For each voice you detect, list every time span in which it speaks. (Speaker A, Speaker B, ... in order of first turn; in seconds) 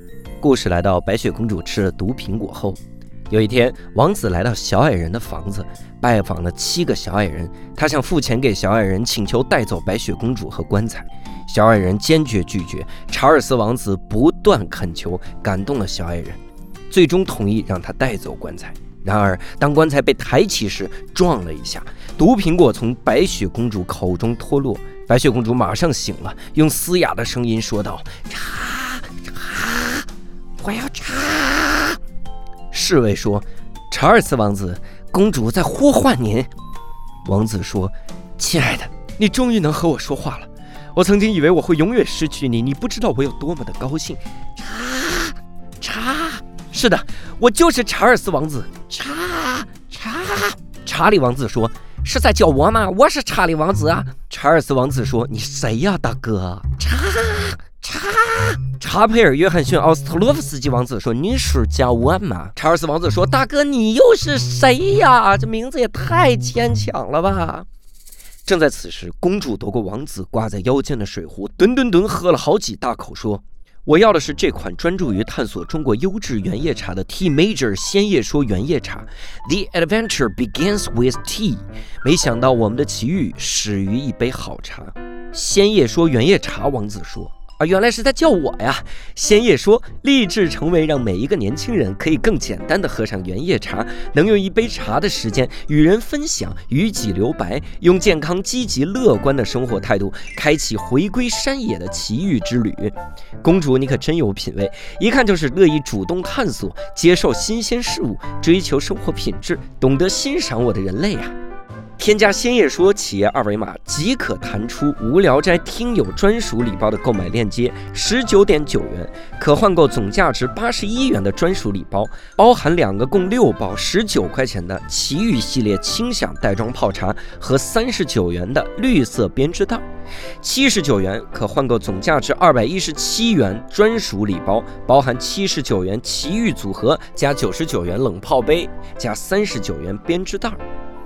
Speaker A: 0.4-16.4, 16.9-30.1, 30.6-32.0, 32.7-36.5, 37.2-67.7, 68.5-111.3, 112.0-129.8, 130.4-140.6